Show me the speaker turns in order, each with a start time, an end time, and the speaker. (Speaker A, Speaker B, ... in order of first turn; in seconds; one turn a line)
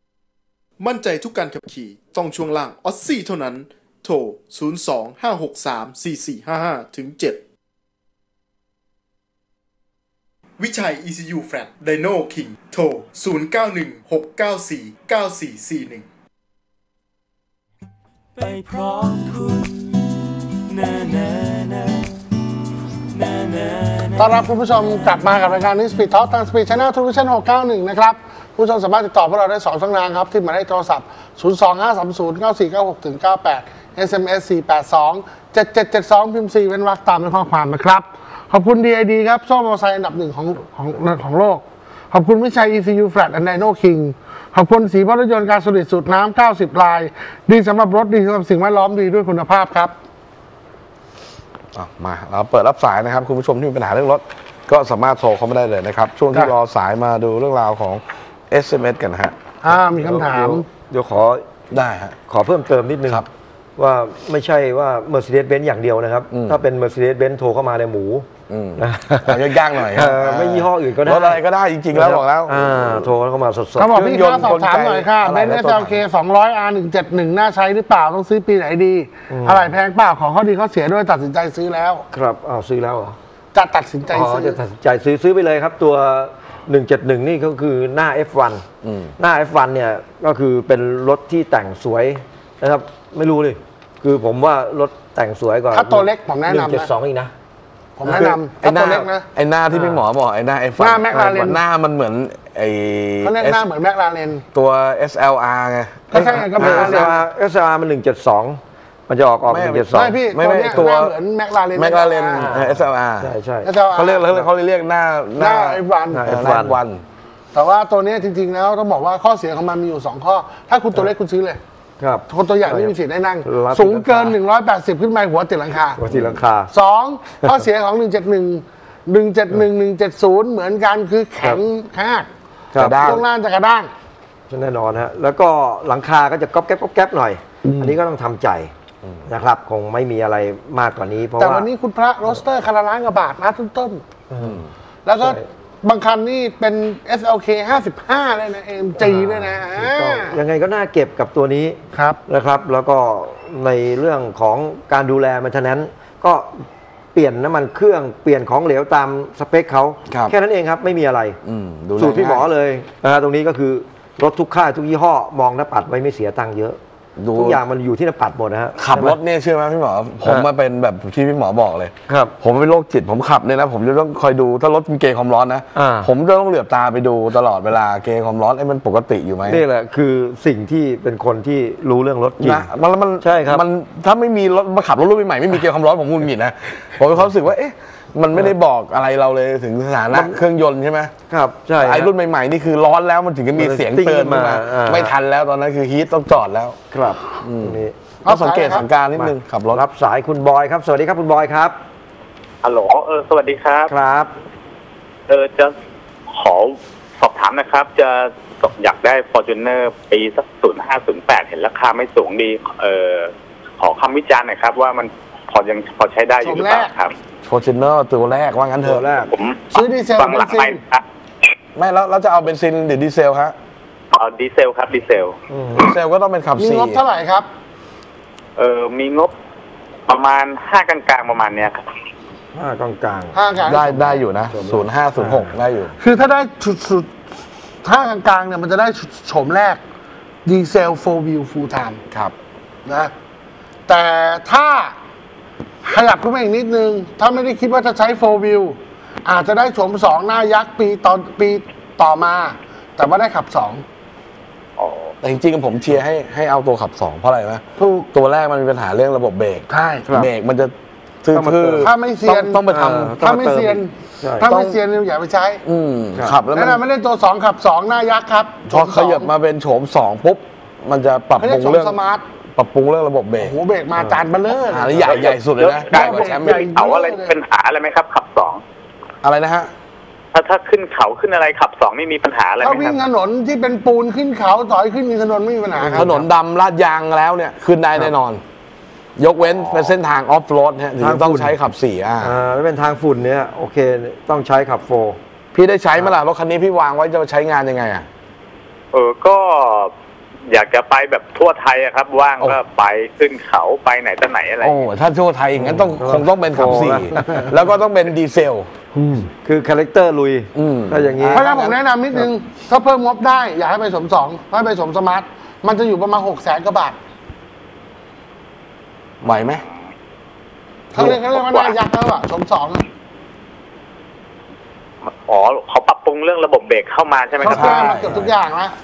Speaker A: 0.8-7.4
Speaker A: 10.6-16.1
Speaker B: 18.4-20.1
Speaker B: 20.7-22.1
Speaker B: 23.2-24.1
Speaker C: 24.1-50.0
Speaker D: 51.8-59.4
Speaker C: 59.6-60.7
Speaker E: 59.7-61.5
Speaker D: 61.7-62.2
Speaker E: 62.3-74.0
Speaker D: 66.3-66.6
Speaker D: 68.5-73.1
Speaker C: 73.8-82.1
Speaker D: 73.9-76.0
Speaker E: 79.3-79.7
Speaker E: 82.1-83.2
Speaker C: 83.5-84.6
Speaker E: 84.1-88.7
Speaker D: 88.8-89.1
Speaker E: 89.2-97.3
Speaker C: 95.7-96.9
Speaker C: 98.0-99.3
Speaker D: 98.1-103.6
Speaker E: 99.7-100.0
Speaker C: 100.8-101.6
Speaker C: 103.2-104.4
Speaker D: 104.5-107.2
Speaker C: 106.1-107.2
Speaker E: 106.1-110.2
Speaker D: 109.5-111.1
Speaker C: 109.9-112.5
Speaker D: 111.8-113.3
Speaker E: 112.4-113.7
Speaker C: 113.6-114.3
Speaker D: 113.9-117.0
Speaker C: 115.4-116.3
Speaker E: 116.1-116.8
Speaker C: 117.5-121.6
Speaker E: 122.0-124.4
Speaker C: 122.3-126.0
Speaker E: 126.0-126.7
Speaker D: 126.1-126.4
Speaker C: 126.7-132.3
Speaker E: 132.7-133.2
Speaker D: 132.8-133.2
Speaker C: 132.9-133.9
Speaker E: 134.5-138.7
Speaker D: 137.7-137.9
Speaker E: 139.3-141.7
Speaker C: 141.4-144.0
Speaker E: 144.3-144.6
Speaker D: 144.4-144.7
Speaker C: 145.1-150.4
Speaker E: 145.2-145.4
Speaker E: 149.0-161.4
Speaker C: 151.9-152.2
Speaker D: 160.1-160.3
Speaker D: 161.4-162.5
Speaker E: 162.0-166.8
Speaker D: 167.2-167.6
Speaker E: 167.3-169.2
Speaker D: 168.8-179.6
Speaker E: 172.1-172.3
Speaker E: 175.8-176.1
Speaker E: 179.5-182.7
Speaker D: 182.4-191.1
Speaker E: 183.2-183.7
Speaker E: 190.1-190.4
Speaker E: 191.3-192.1
Speaker D: 191.8-196.8
Speaker E: 193.6-195.1
Speaker E: 196.9-198.0
Speaker D: 197.4-199.8
Speaker C: 198.2-198.9
Speaker E: 199.1-201.8
Speaker F: 202.6-203.9
Speaker E: 203.9-204.3
Speaker F: 205.3-205.7
Speaker F: 206.3-217.1
Speaker C: 216.4-216.9
Speaker D: 217.4-219.1
Speaker E: 218.8-219.3
Speaker F: 219.3-221.0
Speaker C: 219.7-220.8
Speaker D: 221.8-223.6
Speaker F: 224.1-225.3
Speaker E: 225.5-225.9
Speaker D: 225.7-227.0
Speaker C: 226.6-227.5
Speaker F: 228.6-229.3
Speaker F: 230.1-231.8
Speaker E: 232.5-233.4
Speaker C: 233.3-234.2
Speaker D: 233.7-236.0
Speaker E: 234.5-235.5
Speaker C: 236.0-237.1
Speaker C: 237.8-239.8
Speaker C: 240.5-242.0
Speaker C: 242.8-243.1
Speaker C: 243.9-244.9
Speaker C: 245.8-253.8
Speaker F: 254.8-255.1
Speaker D: 255.2-263.2
Speaker C: 257.8-258.1
Speaker C: 259.7-260.1
Speaker E: 261.3-261.9
Speaker C: 261.8-262.6
Speaker E: 262.7-264.5
Speaker C: 263.2-265.6
Speaker D: 264.4-264.8
Speaker D: 265.6-266.8
Speaker C: 266.5-269.3
Speaker D: 268.7-272.0
Speaker C: 271.4-272.2
Speaker D: 272.6-273.6
Speaker C: 273.4-275.3
Speaker D: 274.7-276.6
Speaker F: 275.0-278.6
Speaker C: 275.9-277.4
Speaker D: 279.2-279.7
Speaker F: 280.3-283.1
Speaker C: 282.6-286.2
Speaker E: 285.8-286.2
Speaker D: 285.9-288.4
Speaker D: 289.2-292.4
Speaker F: 289.4-289.9
Speaker E: 291.0-291.6
Speaker E: 292.2-295.2
Speaker D: 295.5-298.1
Speaker F: 298.9-299.9
Speaker F: 300.5-304.9
Speaker D: 304.6-308.7
Speaker E: 305.6-307.6
Speaker E: 308.9-311.5
Speaker D: 310.6-311.8
Speaker C: 311.3-317.0
Speaker D: 319.2-319.6
Speaker C: 320.9-322.8
Speaker D: 320.9-321.2
Speaker F: 321.3-321.8
Speaker F: 325.0-327.9
Speaker C: 327.4-328.8
Speaker D: 327.4-328.3